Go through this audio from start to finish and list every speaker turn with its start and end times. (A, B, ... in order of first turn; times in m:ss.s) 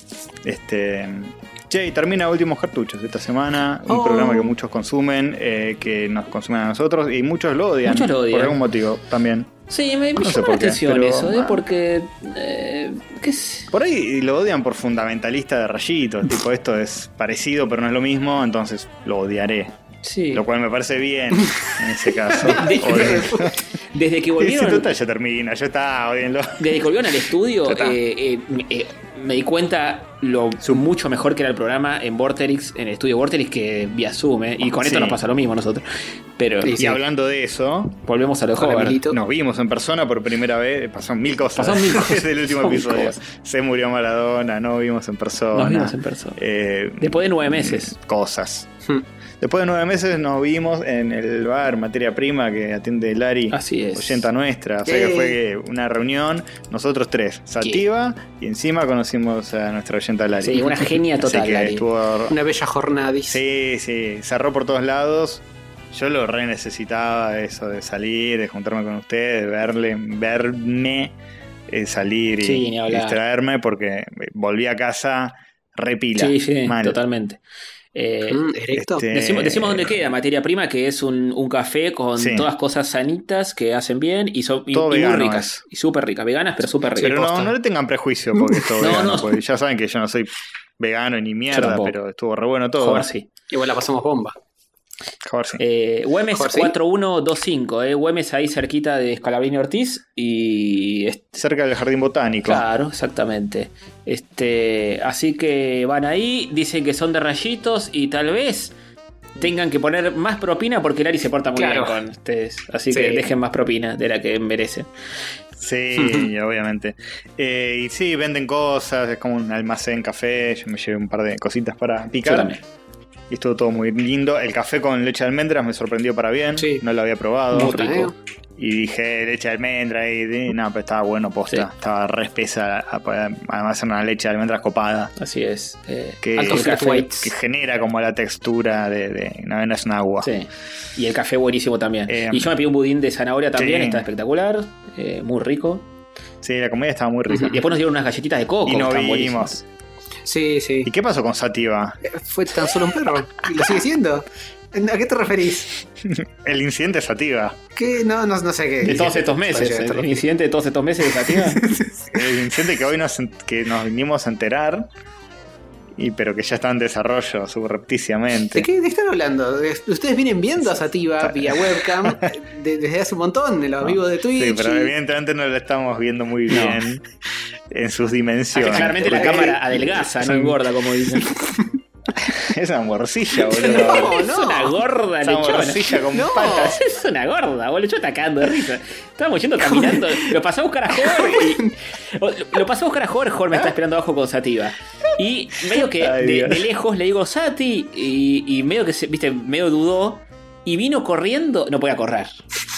0:00.4-0:09.5 A
0:03.9-0:04.5 B
0:07.8-0:08.6 C
0:09.7-0:13.7 C
0:10.2-0:11.6 A
0:13.7-0:19.8 A
0:20.0-0:20.4 C
0:20.3-0:23.6 A
0:22.4-0:23.5 B
0:22.4-0:24.9 C
0:24.4-0:26.8 A
0:26.6-0:36.7 C
0:27.6-0:28.0 A
0:34.7-0:35.2 A
0:36.6-0:37.0 B
0:36.8-0:38.0 A
0:38.0-0:39.0 C
0:38.6-0:39.2 B
0:39.1-0:48.7 A
0:41.6-0:43.2 C
0:45.5-0:46.4 C
0:47.0-0:47.9 C
0:49.4-1:02.3 A
0:53.5-0:54.3 C
0:54.8-0:55.4 B
1:00.4-1:01.8 C
1:02.3-1:03.4 B
1:03.3-1:11.2 A
1:11.7-1:17.0 A
1:12.4-1:13.2 C
1:16.2-1:17.4 C
1:17.9-1:18.4 C
1:18.3-1:19.1 B
1:18.7-1:20.0 A
1:19.1-1:27.5 C
1:22.2-1:22.5 A
1:24.7-1:25.6 A
1:27.0-1:33.1 A
1:28.8-1:29.3 C
1:31.5-1:31.9 C
1:32.8-1:33.3 C
1:33.5-1:34.3 B
1:35.2-1:35.6 A
1:35.6-1:41.4 C
1:36.3-1:36.7 B
1:41.3-1:42.6 A
1:42.4-1:48.7 C
1:49.4-1:54.9 C
1:51.6-1:52.0 B
1:52.9-1:53.3 B
1:55.6-2:02.5 A
1:55.9-1:56.3 B
2:02.2-2:02.6 C
2:03.3-2:07.8 A
2:06.6-2:06.8 B
2:07.5-2:08.1 C
2:07.5-2:08.1 B
2:08.6-2:15.1 A
2:15.2-2:17.2 C
2:16.2-2:20.3 A
2:16.4-2:17.3 B
2:20.2-2:25.8 C
2:22.1-2:22.5 A
2:23.6-2:24.1 A
2:26.4-2:27.6 A
2:27.3-2:27.6 B
2:27.4-2:29.6 C
2:28.6-2:29.6 A
2:30.2-2:30.9 B
2:30.8-2:32.0 A
2:32.1-2:35.8 B
2:36.0-2:37.6 A
2:37.8-2:40.2 B
2:38.8-2:41.6 C
2:41.3-2:42.1 B
2:42.1-2:44.9 A
2:45.9-2:48.7 A
2:48.5-2:54.9 B
2:51.2-2:52.3 A
2:53.8-2:57.1 A
2:56.5-2:56.8 C
2:57.7-3:00.6 A
2:58.5-3:01.3 C
2:58.6-2:59.6 B
3:02.1-3:04.1 A
3:03.5-3:04.8 B
3:03.6-3:22.4 C
3:05.2-3:06.8 A
3:06.1-3:06.8 B
3:09.6-3:10.3 B
3:10.9-3:11.7 B
3:15.8-3:16.7 A